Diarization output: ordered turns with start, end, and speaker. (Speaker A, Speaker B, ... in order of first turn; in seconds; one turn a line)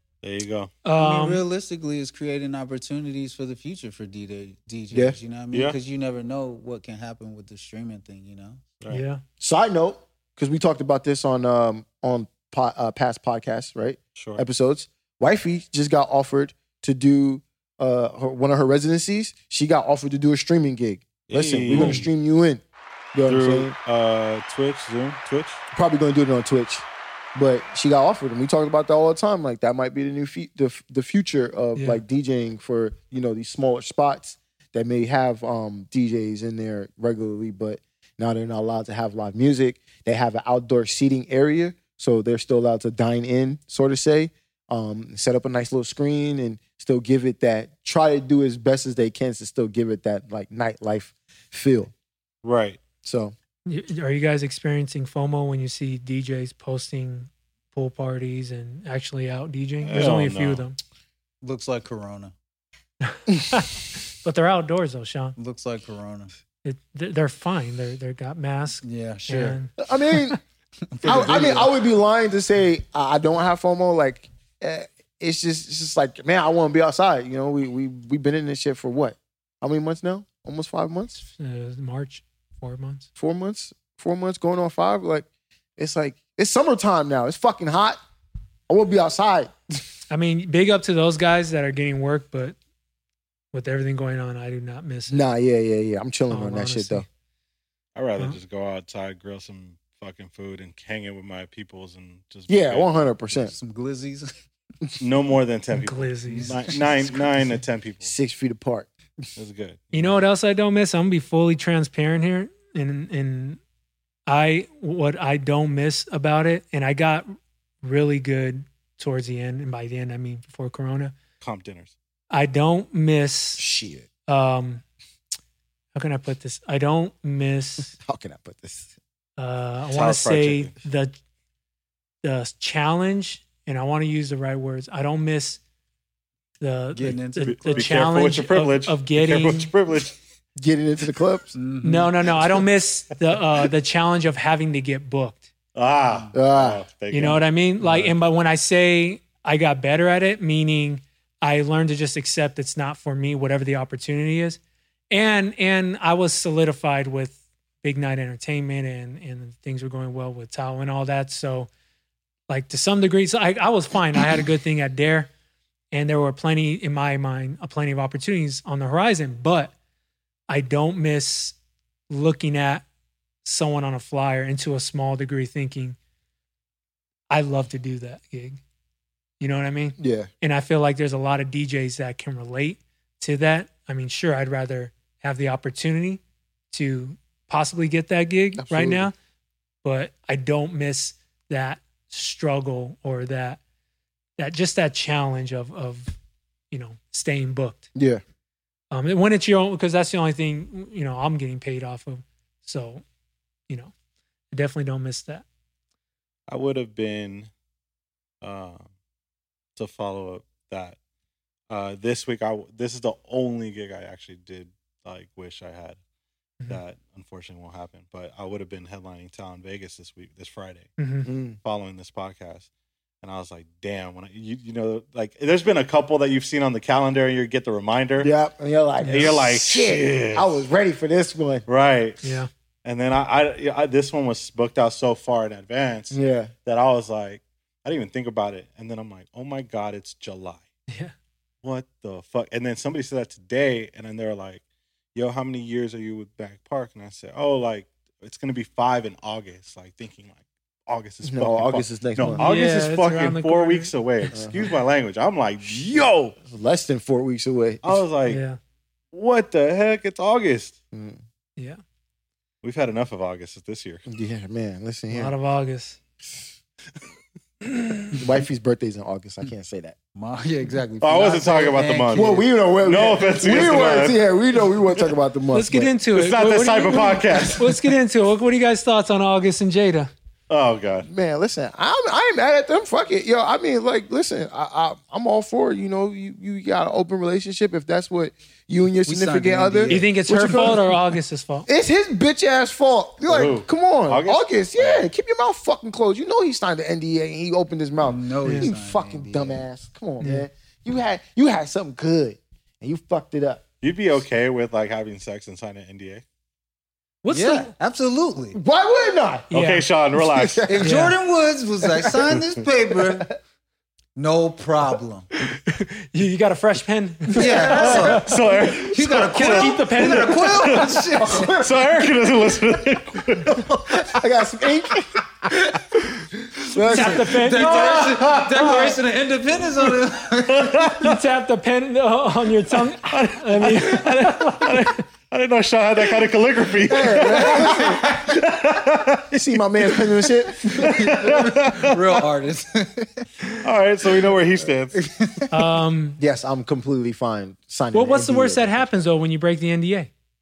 Speaker A: 0.2-0.7
Speaker B: 0.8-1.4
Speaker C: 0.9-8.6
Speaker D: 4.9-5.2
Speaker A: 5.5-5.8
Speaker B: 8.9-9.2
Speaker D: 9.4-22.6
Speaker A: 14.2-14.4
Speaker A: 21.3-22.1
Speaker B: 21.7-22.1
Speaker D: 23.1-23.7
Speaker A: 23.2-25.6
Speaker D: 25.7-51.9
Speaker B: 31.8-32.0
Speaker A: 52.4-52.8
Speaker D: 53.0-53.3
Speaker B: 53.6-60.8
Speaker A: 59.8-60.6
Speaker C: 61.4-62.3
Speaker B: 63.0-65.4
Speaker C: 65.4-66.3
Speaker B: 66.6-69.7
Speaker C: 68.8-69.6
Speaker D: 69.8-70.4
Speaker C: 70.9-71.7
Speaker D: 71.0-81.2
Speaker B: 81.2-83.1
Speaker D: 83.2-88.0
Speaker D: 88.7-89.5
Speaker B: 90.1-92.5
Speaker B: 93.5-95.2
Speaker D: 95.1-97.0
Speaker B: 96.3-97.0
Speaker A: 98.0-102.9
Speaker D: 102.5-103.5
Speaker C: 103.3-104.3
Speaker A: 105.0-108.1
Speaker B: 105.7-107.5
Speaker C: 106.3-106.9
Speaker D: 108.0-108.9
Speaker A: 109.4-110.2
Speaker B: 109.9-113.6
Speaker B: 114.3-121.1
Speaker A: 121.4-121.9
Speaker B: 122.3-123.6
Speaker D: 123.6-124.1
Speaker B: 124.3-124.8
Speaker B: 125.9-127.9
Speaker D: 128.0-128.9
Speaker B: 129.4-131.1
Speaker A: 129.9-130.7
Speaker B: 132.2-135.6
Speaker B: 136.6-139.7
Speaker C: 136.9-137.9
Speaker A: 137.1-140.2
Speaker D: 140.6-141.5
Speaker C: 141.6-142.1
Speaker B: 141.8-145.4
Speaker A: 145.7-148.1
Speaker C: 146.1-146.3
Speaker D: 146.3-146.8
Speaker B: 147.1-154.6
Speaker B: 155.1-161.7
Speaker B: 162.5-165.3
Speaker B: 165.9-169.7
Speaker B: 170.5-171.6
Speaker B: 172.1-172.8
Speaker B: 173.4-176.0
Speaker B: 177.3-178.6
Speaker B: 179.4-189.1
Speaker D: 180.0-180.3
Speaker D: 188.6-189.1
Speaker B: 189.8-193.6
Speaker B: 194.4-196.1
Speaker B: 196.7-197.9
Speaker D: 197.9-198.2
Speaker B: 198.9-203.0
Speaker B: 204.5-205.4
Speaker A: 206.5-207.5
Speaker A: 208.4-208.9
Speaker A: 209.8-211.0
Speaker A: 211.7-216.0
Speaker A: 216.7-220.9
Speaker B: 221.0-221.3
Speaker D: 221.2-221.6
Speaker A: 221.6-222.7
Speaker A: 223.2-228.3
Speaker D: 228.2-231.6
Speaker A: 229.1-230.5
Speaker A: 231.7-240.6
Speaker B: 232.2-232.5
Speaker D: 236.1-236.5
Speaker B: 240.9-241.1
Speaker A: 241.6-244.6
Speaker A: 245.1-256.3
Speaker D: 251.2-252.4
Speaker B: 252.3-253.9
Speaker D: 254.3-254.6
Speaker D: 255.7-258.0
Speaker A: 257.8-258.4
Speaker B: 258.3-258.6
Speaker A: 259.1-260.8
Speaker D: 260.9-261.2
Speaker A: 262.6-264.0
Speaker D: 264.1-265.3
Speaker B: 265.1-266.0
Speaker B: 267.6-268.2
Speaker D: 268.1-269.9
Speaker C: 270.1-272.5
Speaker A: 271.0-274.2
Speaker D: 272.1-275.9
Speaker B: 275.5-280.1
Speaker A: 276.1-277.9
Speaker A: 280.5-281.1
Speaker D: 281.1-291.0
Speaker C: 289.1-290.1
Speaker B: 289.9-291.7
Speaker D: 291.7-303.6
Speaker A: 293.3-295.1
Speaker C: 298.0-299.6
Speaker B: 298.4-298.7
Speaker B: 300.2-300.5
Speaker A: 303.8-306.2
Speaker B: 307.2-307.7
Speaker C: 307.3-308.6
Speaker D: 308.5-309.5
Speaker B: 309.5-309.9
Speaker A: 309.5-310.7
Speaker D: 310.1-310.9
Speaker C: 310.6-313.3
Speaker B: 310.8-311.1
Speaker D: 311.9-312.3
Speaker C: 314.1-315.3
Speaker B: 315.7-318.3
Speaker D: 317.3-318.3
Speaker C: 317.3-318.3
Speaker A: 318.1-324.2
Speaker C: 318.9-321.6
Speaker B: 319.3-320.8
Speaker D: 321.2-321.8
Speaker D: 323.9-325.2
Speaker D: 326.6-328.1
Speaker B: 326.9-328.2
Speaker C: 326.9-330.9
Speaker A: 327.9-328.9
Speaker D: 328.6-328.8
Speaker A: 330.5-331.2
Speaker B: 331.0-335.0
Speaker A: 332.9-342.2
Speaker D: 336.9-338.1
Speaker C: 337.2-338.4
Speaker D: 339.3-341.0
Speaker C: 340.7-343.3
Speaker A: 343.6-345.0
Speaker C: 344.9-345.6
Speaker B: 345.5-346.2
Speaker D: 346.2-349.1
Speaker B: 347.9-350.1